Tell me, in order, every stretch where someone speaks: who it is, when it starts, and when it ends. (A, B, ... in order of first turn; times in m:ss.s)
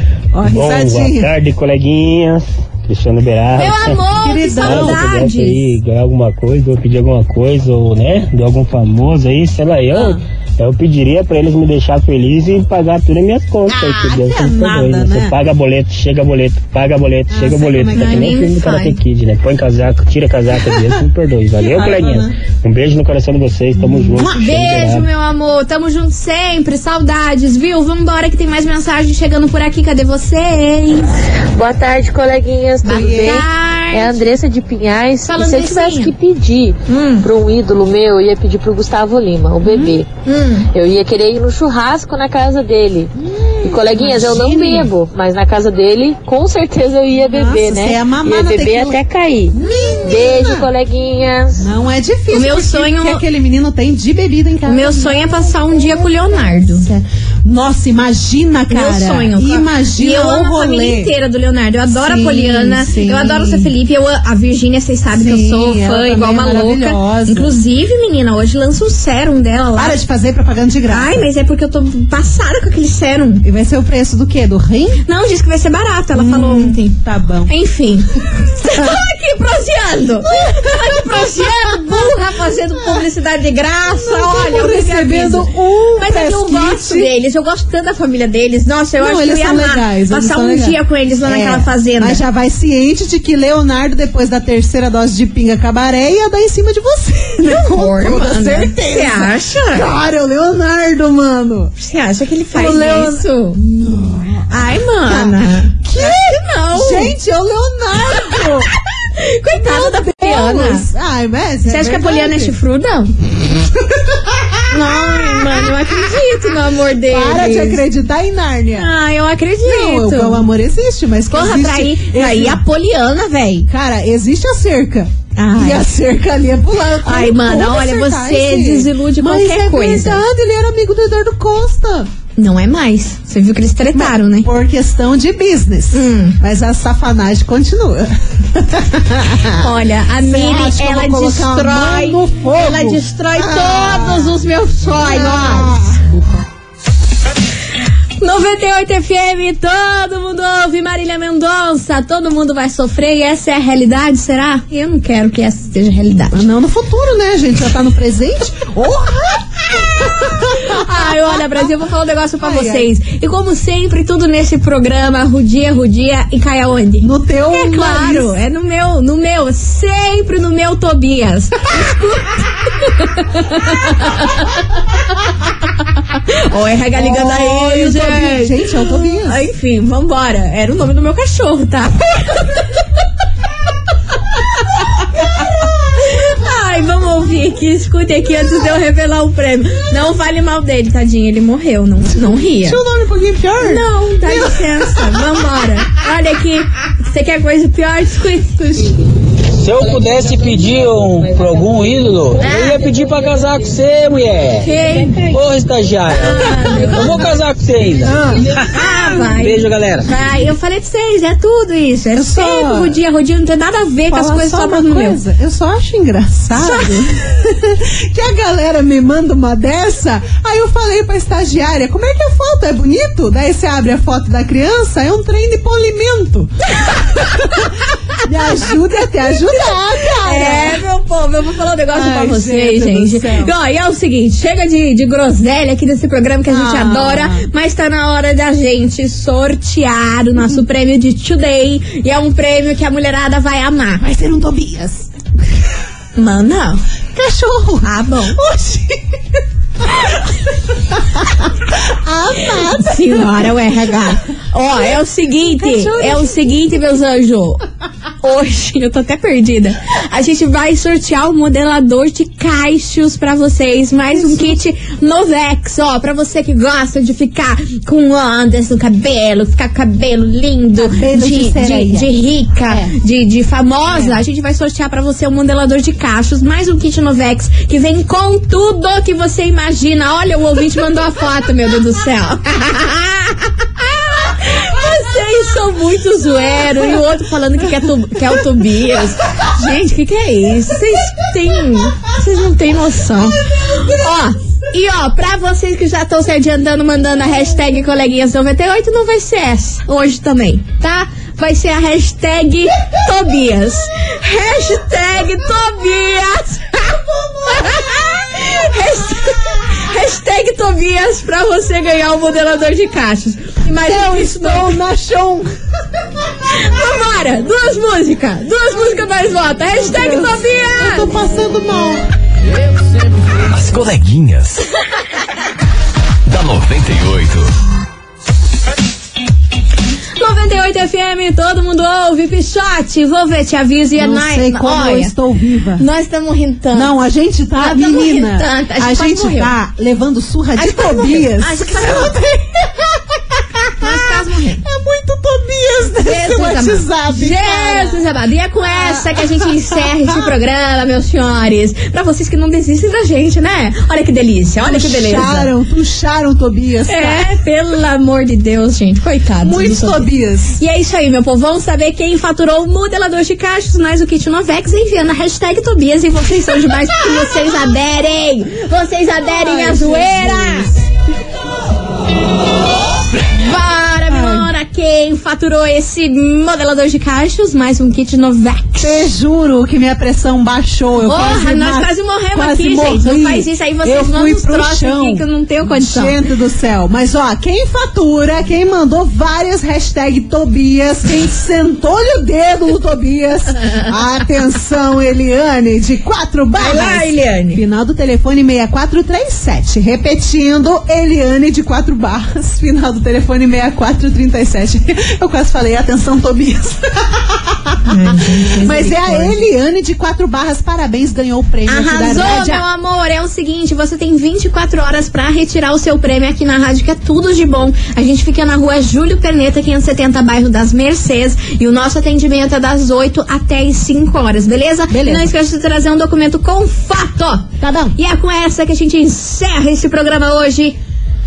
0:00.3-0:01.3 A
0:00.4-0:25.0 B
0:03.6-0:05.6 C
0:04.2-0:05.0 A
0:09.9-0:10.2 A
0:13.7-0:15.3 A
0:17.3-0:18.4 A
0:17.9-0:19.0 C
0:20.6-0:20.9 A
0:21.6-0:22.3 A
0:23.8-0:24.4 A
0:24.3-0:31.1 C
0:31.5-0:40.1 D
0:32.8-0:34.2 C
0:32.9-0:33.4 A
0:35.3-0:36.1 C
0:36.9-0:37.3 C
0:39.6-0:40.0 A
0:40.2-0:40.7 C
0:40.7-0:43.1 D
0:43.2-0:44.9 A
0:43.6-0:51.6 D
0:47.2-0:49.0 A
0:49.5-0:50.7 A
0:51.6-0:55.4 A
0:52.3-0:53.2 C
0:54.7-0:56.9 C
0:56.3-1:01.1 A
0:58.7-1:10.0 C
1:01.9-1:03.7 A
1:05.1-1:07.5 A
1:09.8-1:11.2 A
1:10.9-1:13.4 C
1:13.4-1:15.0 A
1:15.0-1:32.2 C
1:16.1-1:17.5 A
1:18.6-1:19.0 A
1:20.3-1:22.2 A
1:23.9-1:27.1 A
1:29.0-1:41.7 A
1:37.4-1:39.9 C
1:41.8-1:43.6 C
1:42.5-1:44.5 A
1:44.5-1:47.1 C
1:45.0-1:48.7 A
1:49.1-1:50.9 C
1:49.6-1:52.5 A
1:51.6-1:53.1 C
1:53.5-1:55.9 A
1:54.7-1:57.8 C
1:57.1-1:58.9 A
1:58.7-2:00.4 C
1:59.6-2:02.6 A
2:01.3-2:03.7 C
2:03.7-2:12.1 A
2:05.4-2:05.8 C
2:06.7-2:10.2 C
2:12.4-2:14.5 C
2:13.9-2:19.7 A
2:15.9-2:16.4 C
2:19.6-2:25.8 C
2:20.2-2:26.4 A
2:28.2-2:36.4 C
2:36.3-2:41.7 A
2:40.6-2:54.4 C
2:42.4-2:42.8 A
2:47.0-2:48.3 A
2:56.3-3:02.5 C
2:56.9-2:59.4 A
3:06.0-3:12.8 C
3:12.5-3:15.3 A
3:13.6-3:18.6 C
3:18.6-3:18.9 A
3:19.6-3:24.7 E
3:22.4-3:23.3 D
3:22.4-3:22.8 C
3:24.6-3:25.2 C
3:24.7-3:25.3 D
3:25.2-3:30.1 E
3:26.1-3:27.3 C
3:26.5-3:27.1 A
3:28.0-3:28.5 A
3:28.7-3:35.2 C
3:32.1-3:33.0 A
3:34.1-3:50.8 A
3:36.6-3:37.0 C
3:50.2-4:04.0 C
3:51.9-3:53.5 A
3:56.5-3:57.4 A
4:04.0-4:05.1 A
4:06.2-4:06.8 C
4:07.1-4:09.2 A
4:07.8-4:08.4 C
4:09.8-4:10.2 A
4:10.9-4:14.0 A
4:12.4-4:17.6 C
4:15.4-4:16.8 A
4:18.2-5:06.9 C
4:24.1-4:24.6 A
4:30.8-4:32.1 A
4:32.7-4:32.9 A
4:33.9-4:34.2 A
4:46.4-4:47.0 A
4:53.5-4:54.0 A
5:07.1-5:08.0 A
5:07.5-5:14.8 C
5:13.7-5:15.5 A
5:16.5-5:21.1 C
5:19.9-5:22.1 A
5:23.4-5:24.6 F
5:26.2-5:27.5 F
5:30.2-5:35.1 C
5:34.0-5:35.8 A
5:35.8-5:37.0 C
5:36.7-5:48.0 A
5:37.6-5:39.5 C
5:40.6-5:42.1 C
5:43.8-5:44.6 C
5:46.0-5:55.5 C
5:48.7-5:50.4 A
5:54.6-5:57.2 A
5:56.9-6:10.7 C
5:59.4-6:00.6 A
6:09.2-6:10.8 A
6:13.3-6:19.1 C
6:14.1-6:14.5 A
6:18.8-6:52.6 A
6:21.0-6:26.2 C
6:36.5-6:37.6 C
6:47.9-6:49.4 C
6:51.6-7:10.8 C
7:04.9-7:05.3 A
7:07.6-7:07.9 A